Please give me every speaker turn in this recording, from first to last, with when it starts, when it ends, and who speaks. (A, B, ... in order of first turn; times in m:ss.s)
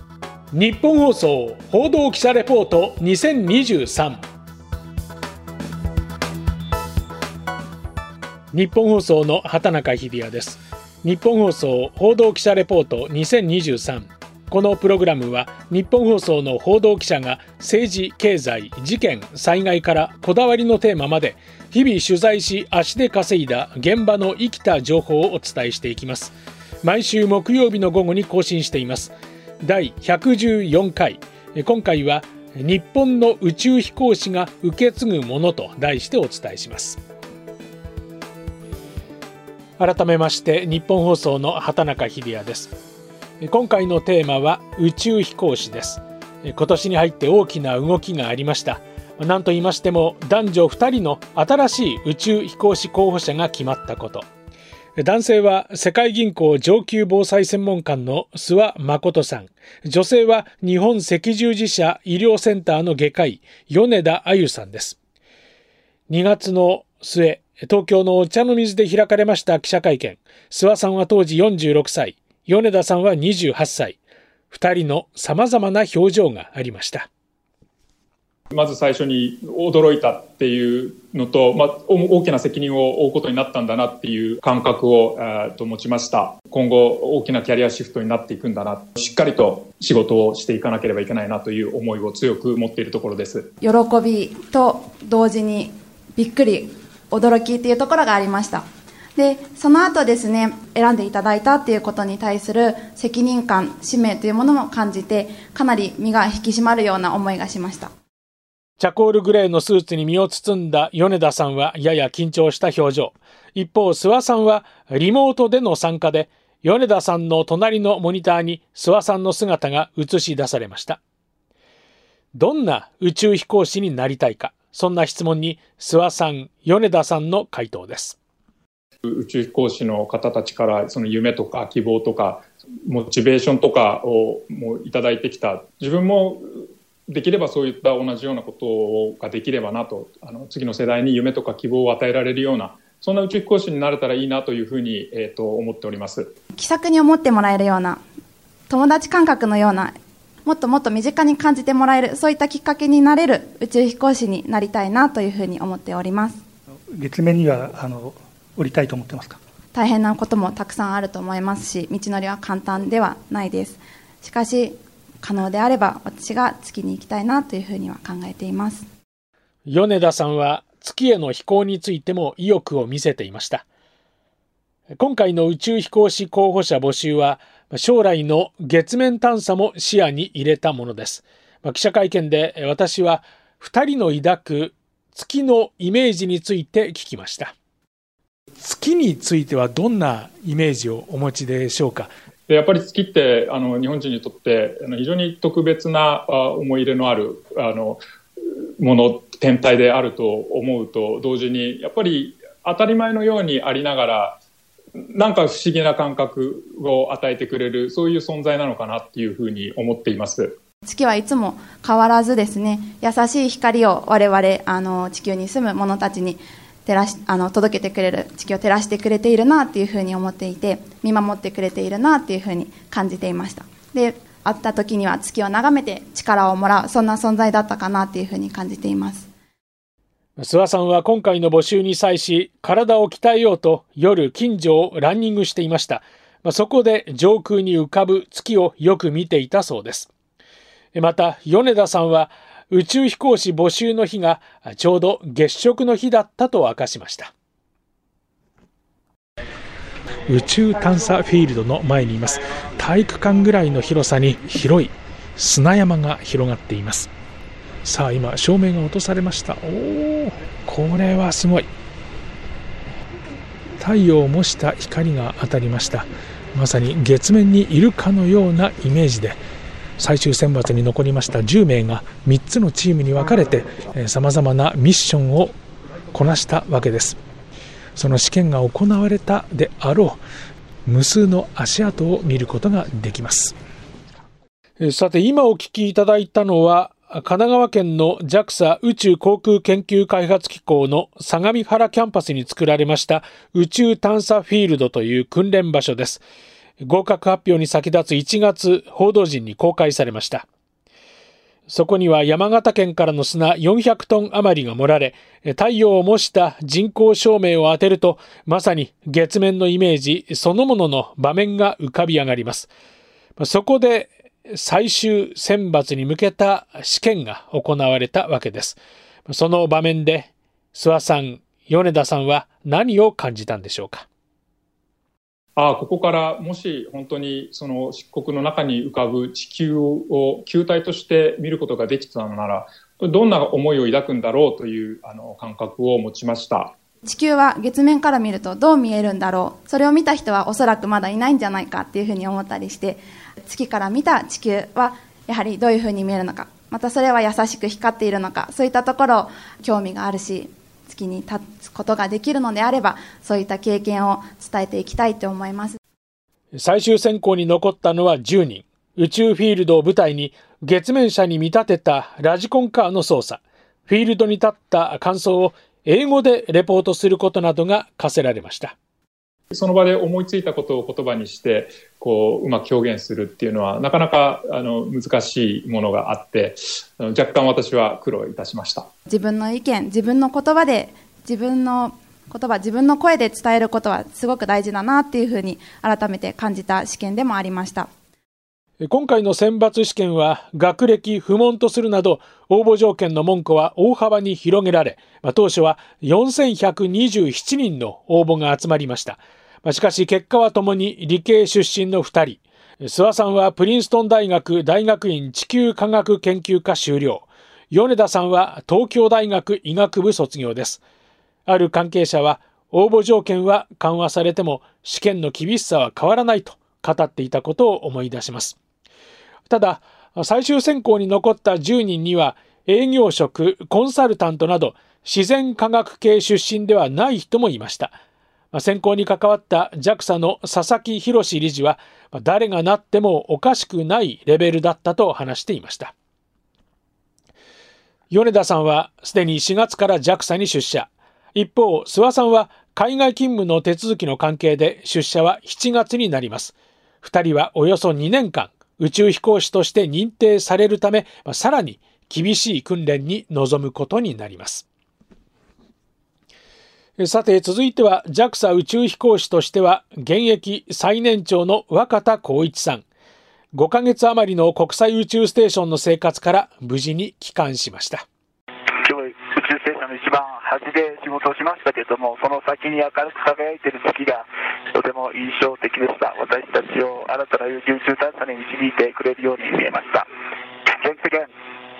0:00.5-0:04.2 A
0:08.5-0:37.0 A
0:39.8-0:42.8 A
0:43.4-0:54.2 A
0:55.0-1:05.0 A
1:06.1-1:17.1 A
1:18.5-1:33.5 B
1:33.6-1:38.6 C
1:39.2-1:47.9 C
1:48.8-2:01.0 A
2:02.3-2:08.2 A
2:09.0-2:26.3 B
2:26.6-2:28.0 C
2:28.7-2:29.9 C
2:30.4-2:36.4 C
2:36.9-2:39.4 D
2:39.7-2:48.9 C
2:49.6-2:53.6 A
2:55.0-3:07.5 A
3:08.6-3:12.1 A
3:12.5-3:18.0 B
3:18.8-3:24.4 B
3:25.0-3:30.6 B
3:30.9-3:49.3 C
3:50.4-4:00.1 A
4:00.9-4:07.3 A
4:10.3-4:17.1 A
4:17.8-4:21.7 A
4:23.8-4:29.4 A
4:30.0-4:35.5 A
4:36.1-4:37.2 A
4:38.0-4:40.2 A
4:40.9-4:43.5 A
4:44.8-4:56.2 A
4:56.8-5:00.5 A
5:01.7-5:12.7 A
5:13.4-5:24.1 A
5:25.6-5:36.7 B
5:37.1-5:55.8 C
5:56.5-6:08.8 A
6:09.5-6:18.9 B
6:19.1-6:27.9 C
6:28.8-6:50.8 A
6:51.5-6:58.6 A
6:59.5-7:08.0 A
7:08.5-7:15.9 A
7:18.1-7:34.7 A
7:37.0-7:42.8 A
7:43.5-7:48.0 A
7:48.8-8:00.1 E
8:00.7-8:01.3 E